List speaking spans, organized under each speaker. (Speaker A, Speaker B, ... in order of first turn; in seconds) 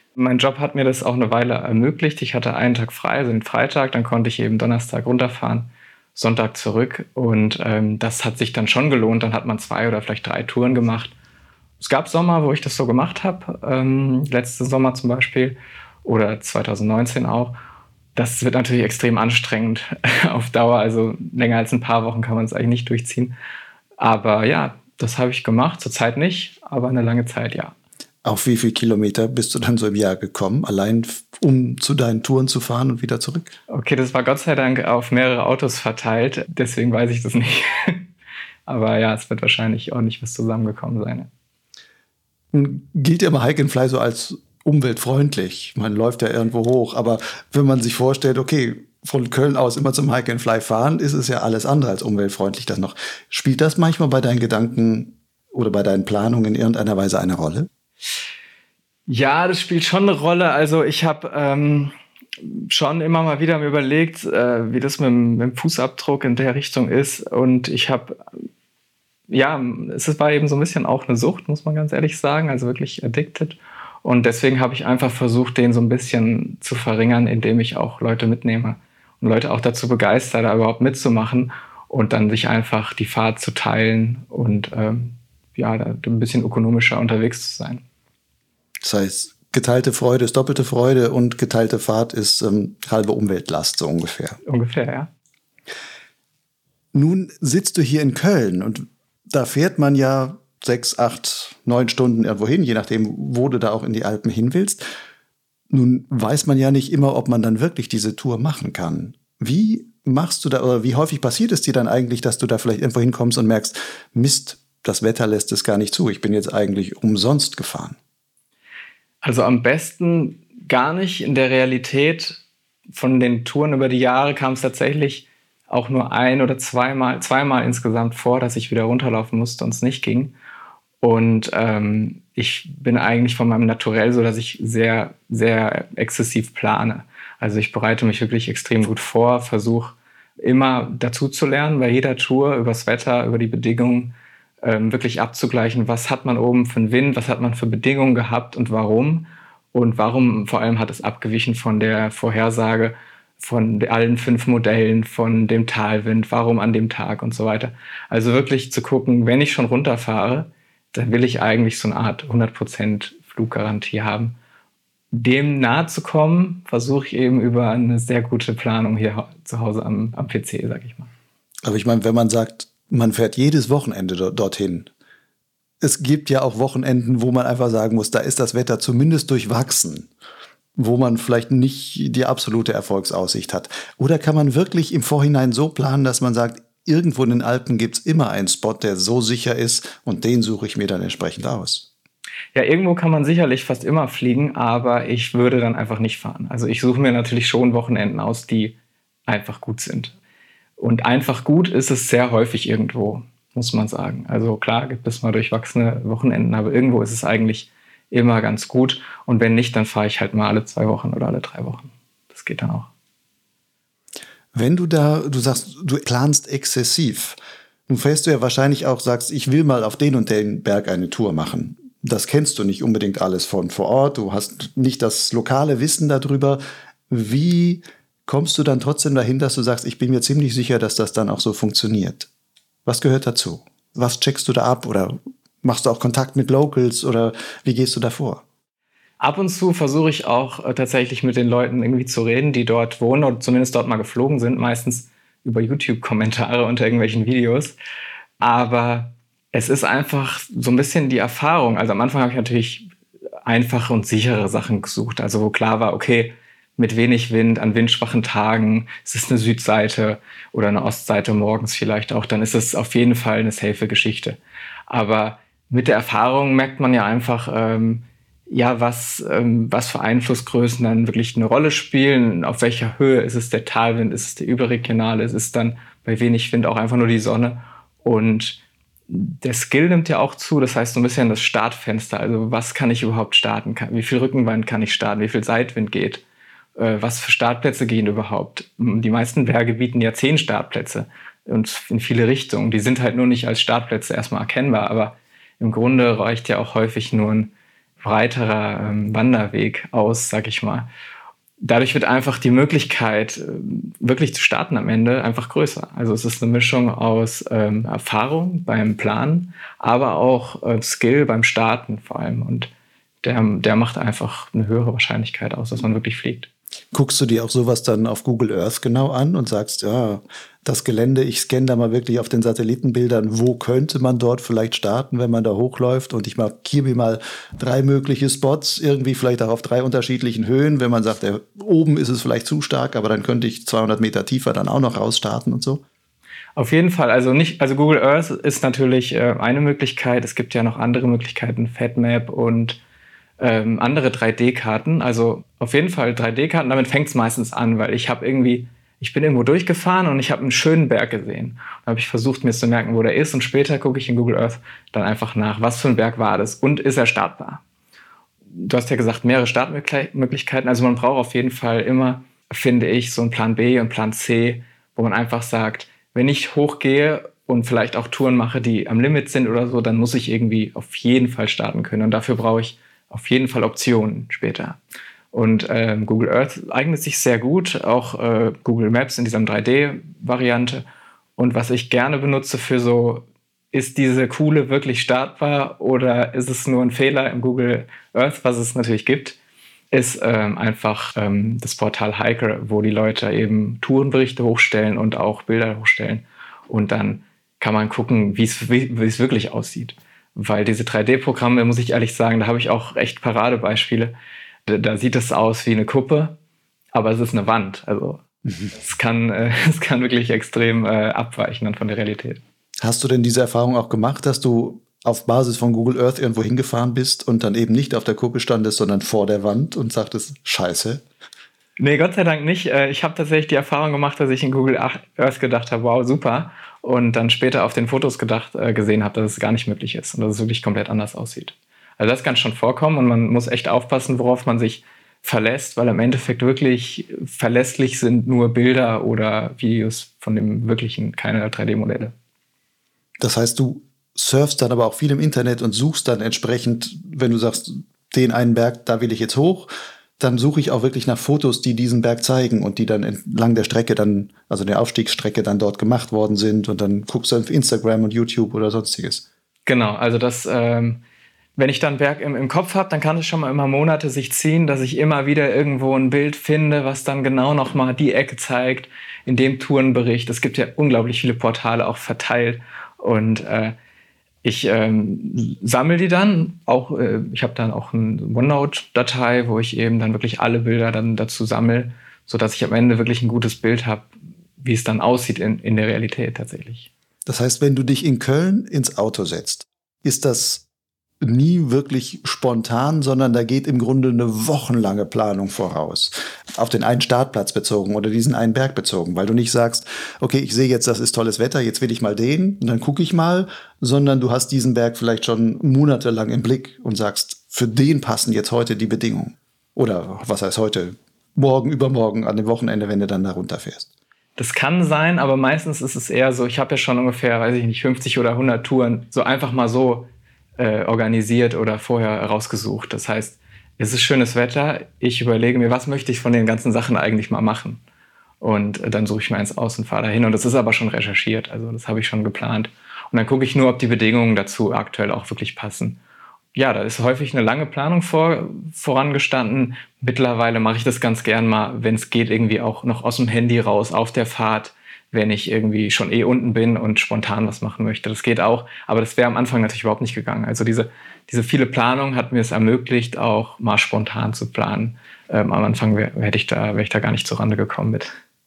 Speaker A: 0.2-11.1, 11.8-17.6, 18.1-23.3, 24.0-27.7, 33.7-38.1, 38.7-41.3, 59.1-68.2, 69.3-87.8, 94.5-95.1, 119.2-122.4, 122.9-130.3, 131.0-164.4, 165.1-171.1, 192.6-198.8, 199.3-200.2, 200.8-212.9, 239.2-247.8, 248.4-252.9, 253.4-264.4, 264.9-286.2, 286.8-300.9, 301.6-312.7, 313.2-316.5, 336.6-342.8, 343.4-357.6, 358.5-374.8, 375.3-380.8, 381.4-389.4, 389.9-404.1, 404.7-406.4, 406.9-412.4, 421.8-442.1, 459.7-461.0, 461.6-473.8, 474.4-486.9, 514.4-527.8, 528.4-536.0, 536.5-558.1
Speaker B: 28.2-33.5, 42.5-57.7, 88.8-94.4, 96.9-104.8, 105.7-118.0, 171.6-174.9, 175.8-180.1, 180.8-191.9, 214.5-217.4, 217.9-232.3, 232.9-238.4, 316.9-335.8, 412.8-421.0, 443.2-459.2, 487.3-490.7, 491.2-513.9